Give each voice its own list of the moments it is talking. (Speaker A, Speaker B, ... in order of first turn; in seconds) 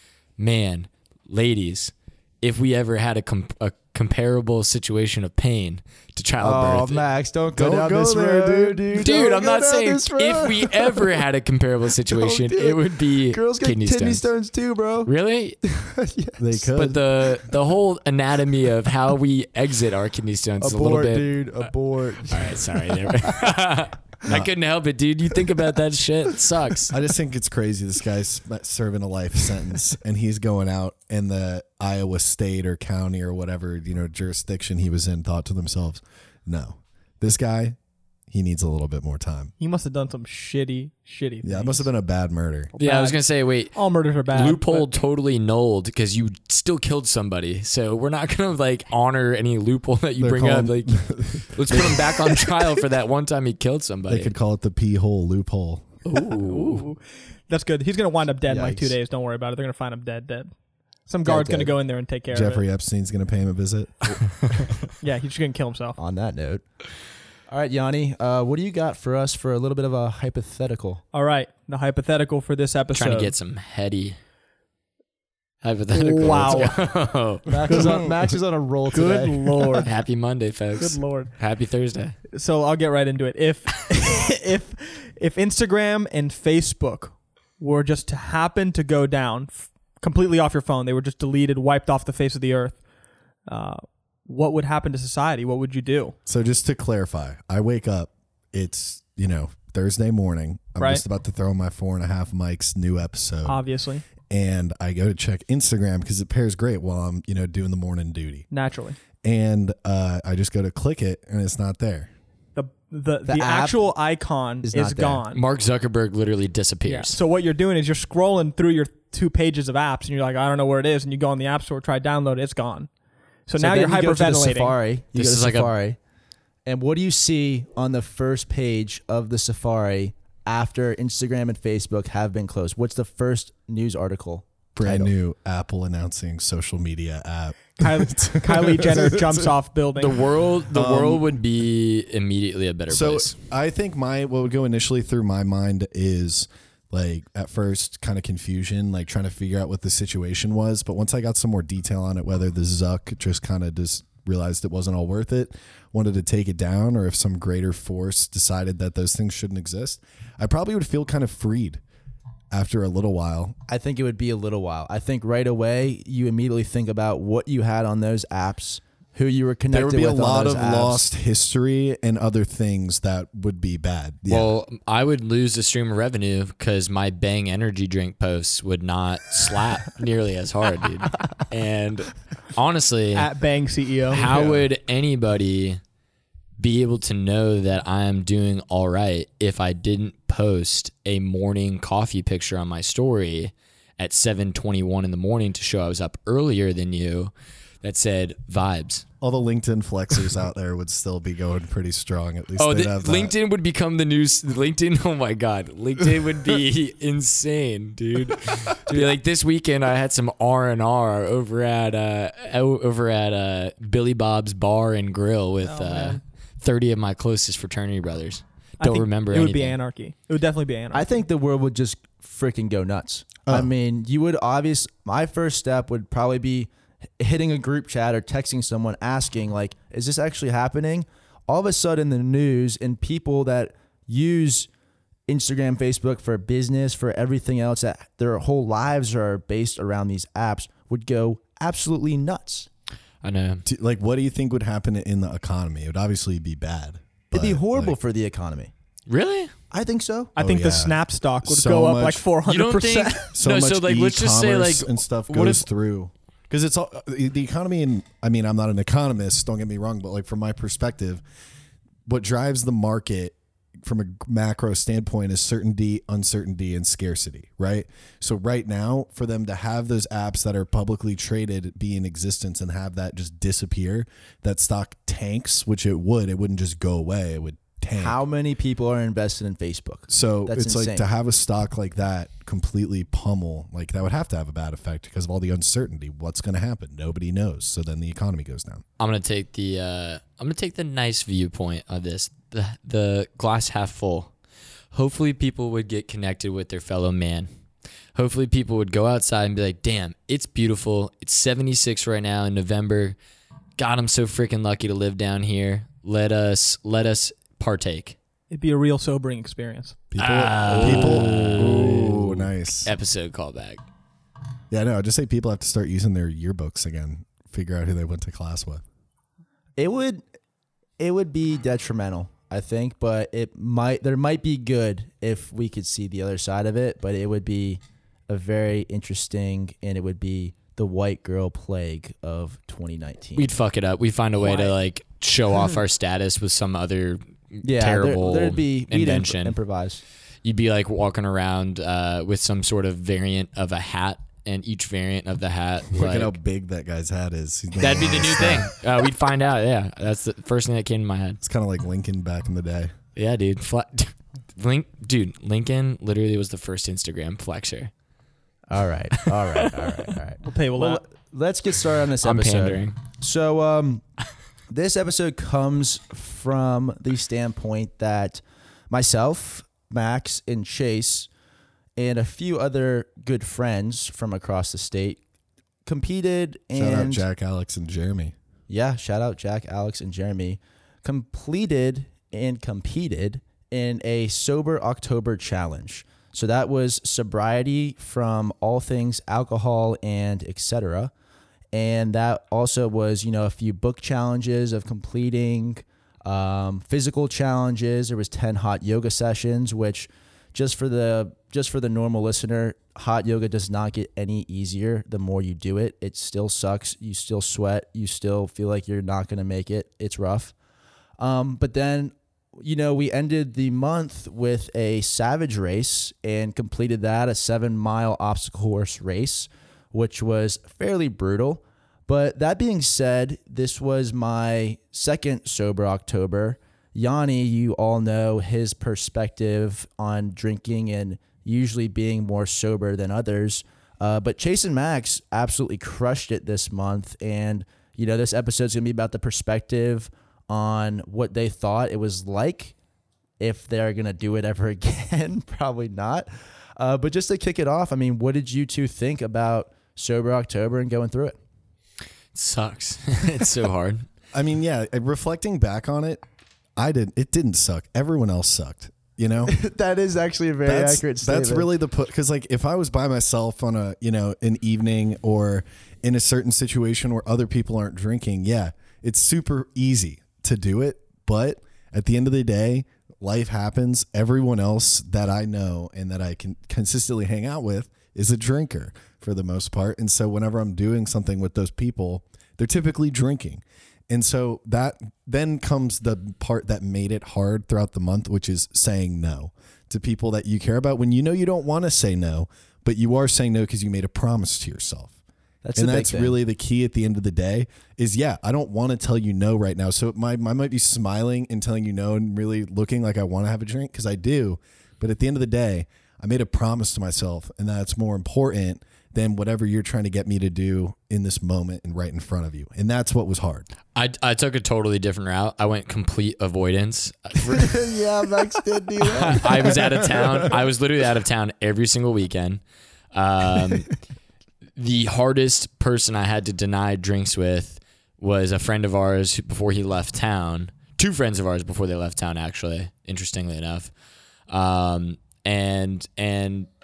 Speaker A: 0.4-7.0, 8.9-14.2, 15.1-15.8, 16.7-21.7, 22.2-26.9, 42.8-54.3, 56.0-56.9, 72.9-74.2, 75.6-78.0, 79.8-82.2, 115.3-117.2, 125.1-125.7, 139.9-143.3, 174.3-183.3, 184.1-185.8, 186.6-199.0, 202.6-219.8, 243.2-243.6, 249.1-249.5, 252.4-255.6, 289.0-294.3, 294.9-297.5, 298.1-303.2, 303.8-308.1, 310.2-313.8, 333.4-339.6, 340.4-346.3, 347.8-351.4, 353.1-357.9, 362.2-362.9, 452.3-454.1, 513.9-517.9, 519.1-522.6, 523.1-523.9, 524.8-533.9, 534.5-536.7
Speaker B: 6.4-11.2, 12.1-15.1, 15.9-16.4, 20.6-23.0, 58.5-58.9, 61.2-61.7, 66.0-66.6, 67.5-71.0, 77.5-79.8, 113.2-113.9, 114.6-115.2, 123.6-126.0, 126.7-135.1, 163.7-171.1, 220.9-234.7, 235.3-242.7, 247.3-248.7, 249.7-250.3, 277.9-281.1, 319.8-320.2, 321.0-333.5, 334.4-334.7, 337.6-340.0, 358.7-364.0, 364.7-371.3, 372.0-375.2, 375.8-377.2, 378.7-391.1, 391.7-410.5, 411.2-442.7, 443.4-451.4, 459.4-461.7, 495.6-496.4, 517.5-520.4
Speaker C: 7.5-9.0, 16.4-17.0, 26.9-37.8, 38.3-39.5, 41.4-42.7, 50.2-52.8, 54.1-56.0, 62.3-64.8, 96.2-103.6, 104.2-108.5, 109.2-112.1, 134.7-139.5, 140.7-141.2, 142.9-161.8, 162.5-163.6, 169.7-174.5, 199.2-203.3, 243.6-247.9, 250.4-252.2, 253.3-261.2, 262.1-278.2, 280.1-288.8, 310.1-312.9, 314.7-318.8, 345.9-348.7, 351.4-352.9, 376.7-378.3, 454.3-456.2, 456.8-459.5, 460.6-495.1, 495.7-513.7
Speaker D: 39.6-41.9, 42.7-43.2, 43.7-44.9, 56.2-60.5, 61.0-62.6, 65.0-66.0, 71.1-73.3, 75.9-76.8, 77.7-78.1, 78.9-79.9, 80.8-81.3, 82.3-92.8, 93.5-96.1, 103.5-104.0, 108.5-109.0, 112.5-115.4, 116.9-122.9, 123.5-124.7, 137.8-140.2, 183.2-184.5, 215.7-216.2, 218.8-221.1, 250.3-253.3, 308.5-310.0, 360.4-361.0